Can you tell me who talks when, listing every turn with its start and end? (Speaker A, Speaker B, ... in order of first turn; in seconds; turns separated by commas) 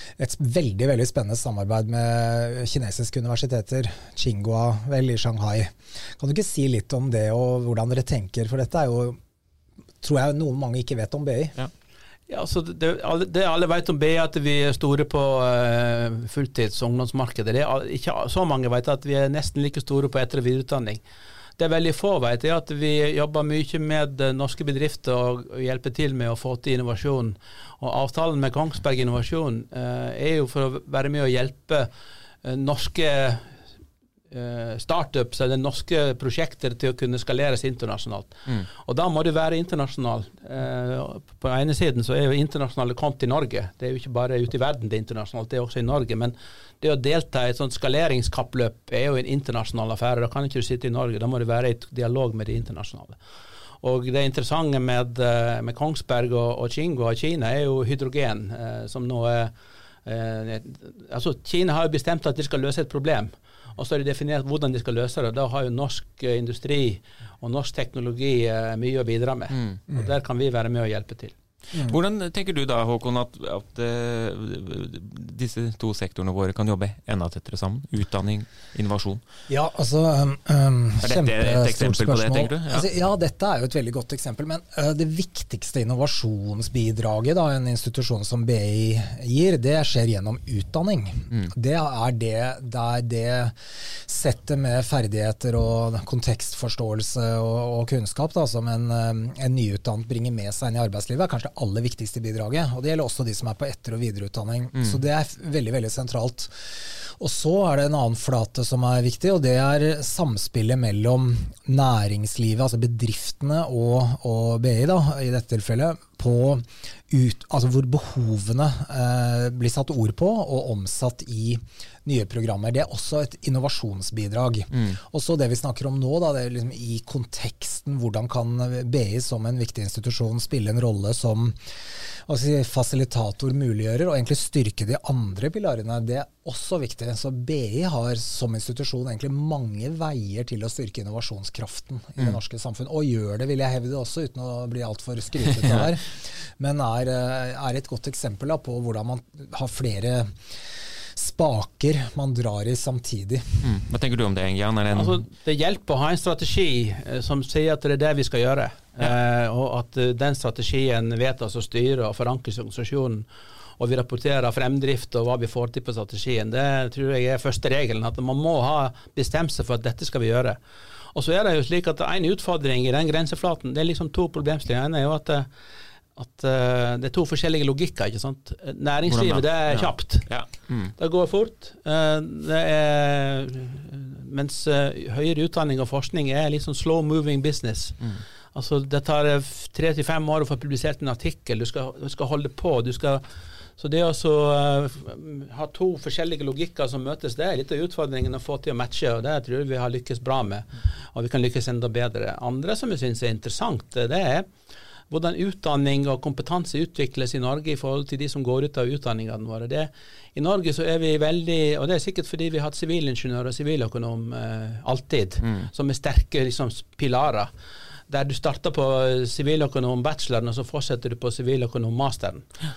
Speaker A: 0.2-9.2, Speaker A: 10.0-11.6, Speaker B: 12.3-21.0, Speaker B: 21.6-31.9, Speaker B: 32.4-33.5, Speaker B: 34.3-53.2, Speaker B: 53.8-59.5, Speaker B: 60.0-71.3, Speaker C: 71.7-79.2, Speaker A: 79.5-131.6, Speaker C: 81.0-82.8, Speaker C: 104.7-105.0, Speaker C: 124.7-125.0, Speaker A: 132.2-150.4, Speaker C: 145.6-145.9, Speaker A: 151.1-153.7, Speaker C: 153.6-155.2, Speaker B: 154.9-163.3, Speaker B: 163.8-170.6, Speaker B: 171.1-175.5, Speaker B: 176.1-188.0, Speaker C: 179.1-180.9, Speaker B: 188.5-193.2, Speaker B: 193.8-204.5, Speaker B: 205.1-217.5, Speaker C: 215.4-215.7, Speaker B: 218.1-222.5